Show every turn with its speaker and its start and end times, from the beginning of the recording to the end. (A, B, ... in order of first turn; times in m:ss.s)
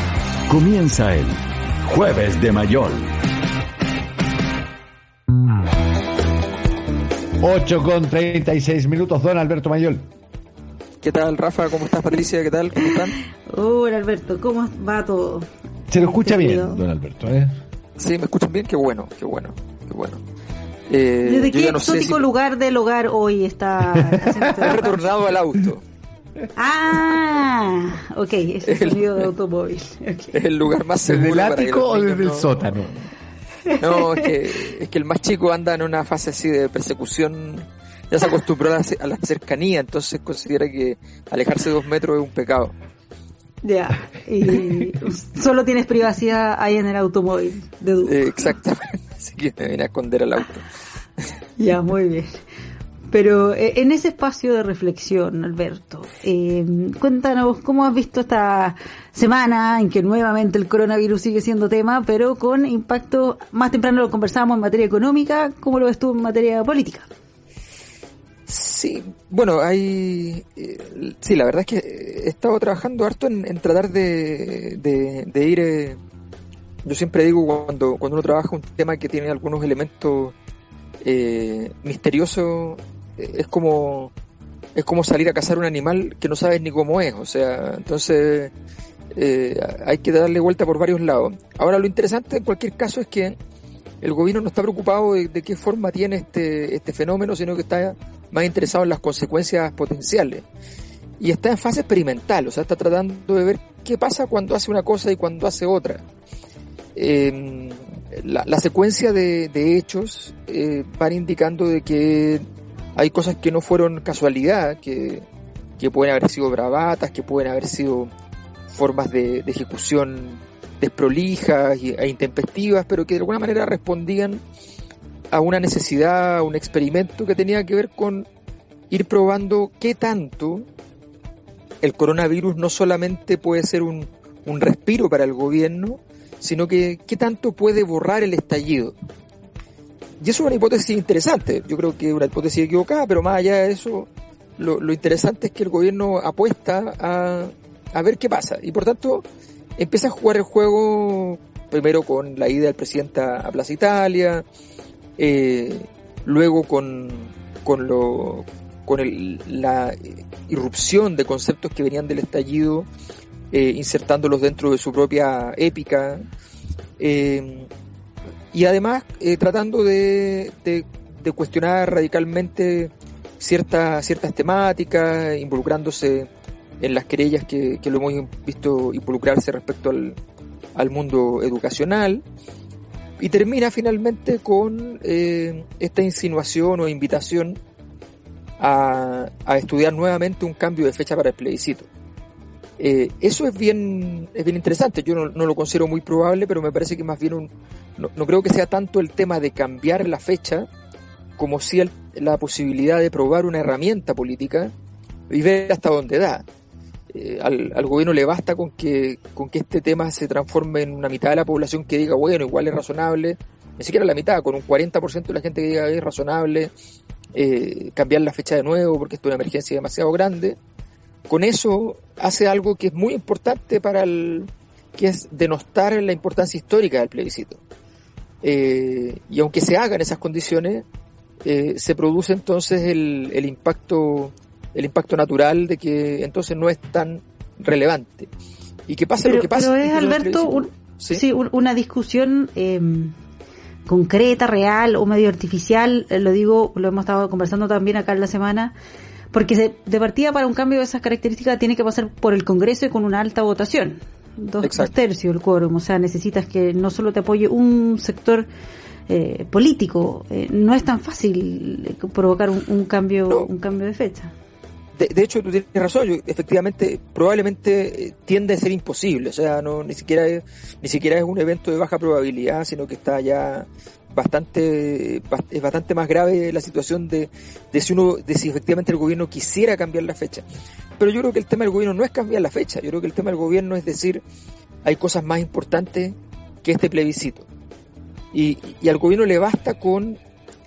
0:00.5-0:03.2 A
0:07.4-0:10.0 B
0:11.0-0:13.2 C
0:13.4-0:16.8 D
0:15.9-0:17.5 B
0:18.0-0:20.2 C
0:20.9-0:22.2 C
0:21.2-0:24.9 D
0:24.6-0:25.8 C
0:26.5-0:30.4 D
0:28.6-0:29.3 C
0:30.3-0:32.7 C
0:31.0-0:33.0 B
0:33.6-0:34.1 D
0:33.8-0:42.7 C
0:43.6-0:48.5 D
0:48.0-0:50.6 C
0:51.6-0:52.3 D
0:53.1-1:07.1 D
1:08.5-1:16.0 C
1:16.8-1:20.3 C
1:21.0-1:24.1 C
1:24.7-1:28.5 C
1:29.1-1:33.4 C
1:34.0-1:40.4 C
1:41.2-1:46.0 C
1:46.9-1:52.4 C
1:53.0-1:55.2 C
1:55.8-1:58.1 C
1:58.7-2:04.4 C
2:05.3-2:08.3 C
2:08.9-2:10.7 C
2:11.8-2:19.0 C
2:20.2-2:29.2 C
2:29.8-2:34.4 C
2:35.2-2:42.9 C
2:43.5-2:46.2 C
2:47.0-2:47.7 C
2:48.5-3:00.2 C
3:00.7-3:02.2 C
3:03.2-3:07.6 C
3:08.6-3:11.9 C
3:12.8-3:20.7 C
3:21.4-3:24.7 C
3:25.3-3:26.4 C
3:27.1-3:36.7 C
3:37.3-3:40.6 C
3:41.3-3:47.6 C
3:48.4-3:50.8 C
3:51.4-3:58.3 C
3:58.9-4:01.2 C
3:59.2-4:03.1 D
4:03.8-4:08.7 D
4:09.3-4:18.5 D
4:14.6-4:14.9 C
4:19.1-4:24.3 D
4:25.0-4:40.4 C
4:41.0-4:44.2 C
4:44.8-4:47.5 C
4:48.3-4:50.2 C